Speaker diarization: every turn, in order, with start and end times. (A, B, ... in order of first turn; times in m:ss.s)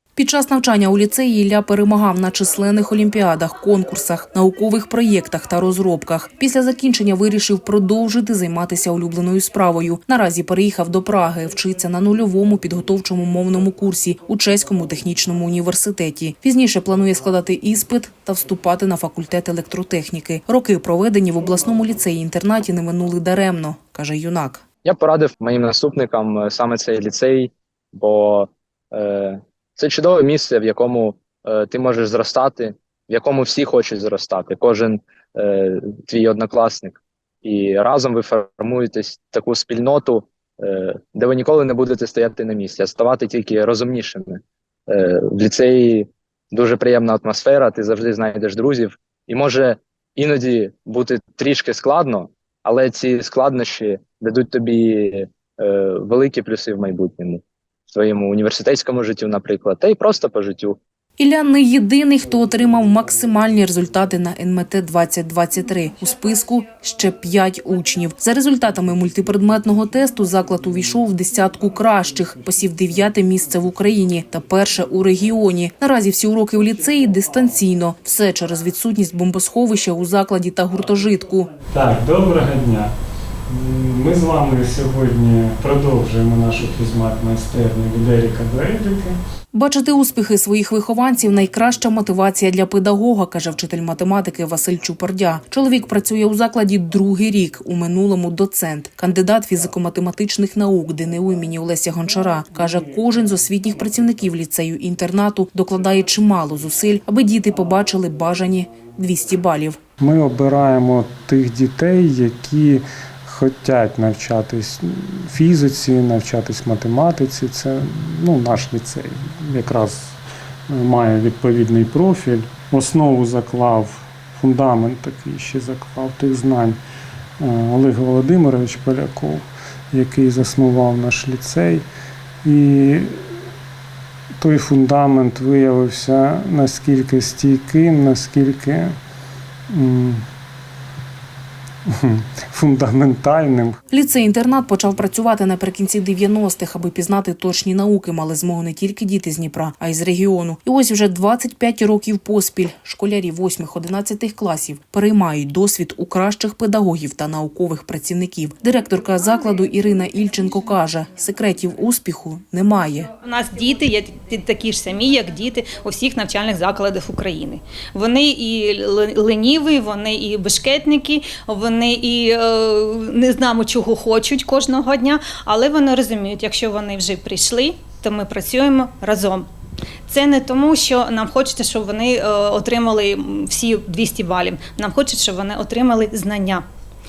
0:00.2-0:24.6 A
0:24.8-1:00.8 B
1:01.2-1:21.5 A
1:21.7-1:22.9 C
1:23.5-1:29.2 C
1:29.5-1:49.8 A
1:50.0-2:00.2 C
2:00.7-2:06.8 C
2:07.4-2:11.9 C
2:12.4-2:13.2 C
2:14.4-2:19.0 C
2:19.7-2:20.2 C
2:21.9-2:23.8 C
2:23.9-2:43.1 A
2:43.2-2:59.5 D
3:00.1-3:06.6 D